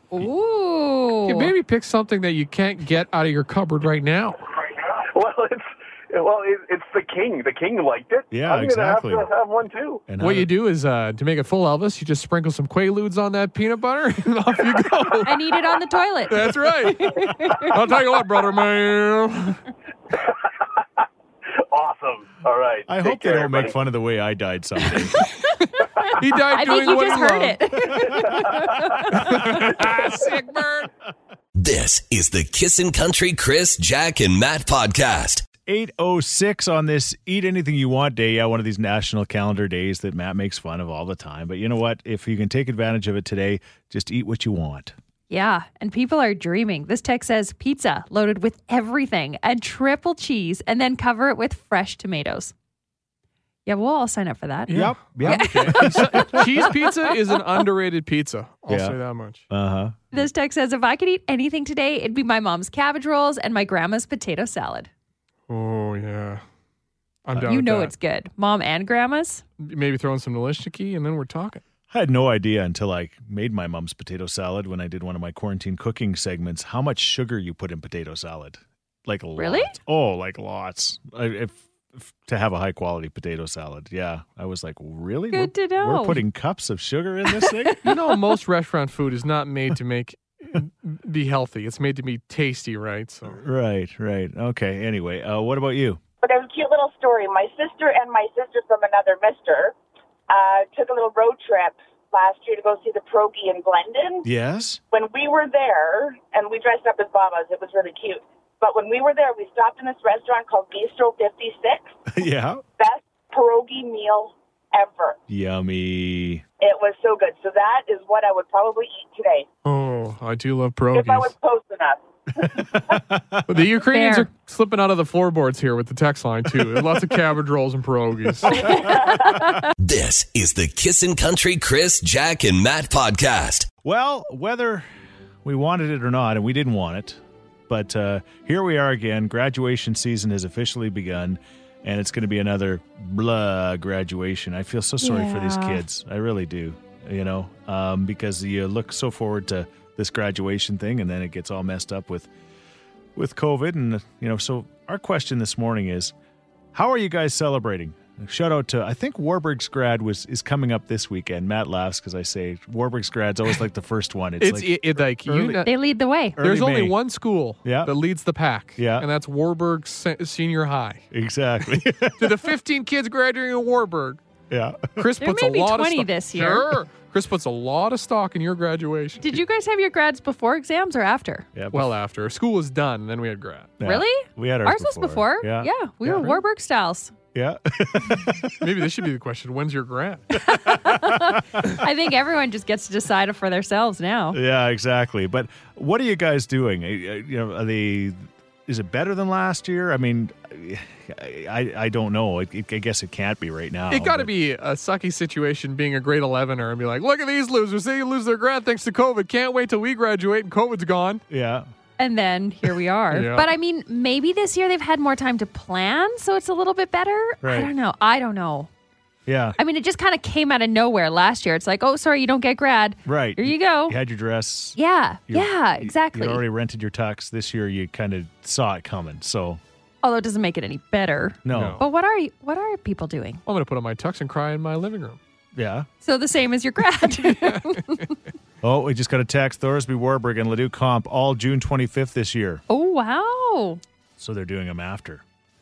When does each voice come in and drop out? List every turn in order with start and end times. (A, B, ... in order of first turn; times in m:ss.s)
0:00.1-0:01.5 A
0:01.2-0:04.4 B
0:04.6-0:10.0 C
0:08.3-0:09.3 D
0:10.1-0:10.5 D
0:10.2-0:15.4 B
0:15.2-0:17.8 A
0:16.3-0:19.6 B
0:20.1-0:21.0 C
0:21.6-0:23.8 C
0:22.9-0:25.2 D
0:24.9-0:29.6 A
0:26.2-0:28.0 B
0:28.2-0:29.0 C
0:29.1-0:30.9 B
0:31.6-0:35.4 E
0:35.6-0:45.0 D
0:45.3-0:52.5 A
0:53.7-0:57.1 A
0:54.7-0:59.4 B
0:54.7-0:56.7 D
0:58.7-0:59.0 D
0:59.5-1:00.2 D
1:00.1-1:04.9 A
1:05.5-1:06.4 B
1:07.3-1:07.9 B
1:07.4-1:09.4 A
1:09.6-1:11.6 B
1:11.9-1:27.8 D
1:19.4-1:19.7 A
1:25.3-1:26.2 A
1:27.3-1:28.0 A
1:27.8-1:33.4 B
1:33.3-1:36.0 D
1:36.2-1:39.8 F
1:40.3-1:44.3 F
1:44.2-1:44.8 D
1:44.9-1:52.0 F
1:52.1-1:52.6 D
1:52.8-1:55.2 F
1:55.3-1:56.4 D
1:56.6-1:59.5 F
1:59.6-2:01.3 B
2:00.9-2:02.9 F
2:02.4-2:03.4 D
2:03.5-2:08.6 B
2:03.8-2:04.3 A
2:08.5-2:09.7 A
2:08.7-2:09.2 F
2:09.8-2:13.7 E
2:13.8-2:14.9 D
2:15.4-2:32.3 D
2:25.0-2:25.8 A
2:33.2-2:36.1 D
2:36.7-2:45.7 D
2:44.4-2:45.7 B
2:45.6-2:46.4 A
2:46.4-2:47.0 D
2:46.4-2:51.0 B
2:47.6-2:47.9 D
2:48.8-2:49.1 D
2:51.1-2:52.5 D
2:52.1-2:54.2 B
2:54.5-2:55.1 D
2:55.0-2:59.4 B
2:55.2-2:56.7 A
2:59.2-3:01.5 A
3:01.5-3:01.9 D
3:01.7-3:03.7 B
3:03.8-3:05.7 D
3:03.8-3:07.1 A
3:06.1-3:06.4 B
3:07.3-3:08.8 D
3:08.6-3:10.3 B
3:10.3-3:14.4 A
3:10.7-3:11.7 D
3:14.3-3:24.3 D
3:23.9-3:31.2 B
3:31.3-3:31.7 D
3:32.0-3:38.7 A
3:33.1-3:33.5 B
3:37.4-3:37.7 D
3:39.3-3:39.6 D
3:39.6-3:44.0 A
3:43.1-3:44.8 D
3:44.8-3:46.4 A
3:45.3-3:49.6 D
3:50.0-3:53.4 A
3:51.4-3:51.8 D
3:51.5-3:51.8 B
3:53.5-3:55.2 B
3:55.6-3:55.9 D
3:56.0-3:58.1 A
3:57.4-3:57.8 B
3:58.6-4:02.6 D
4:02.7-4:03.8 A
4:04.2-4:05.2 D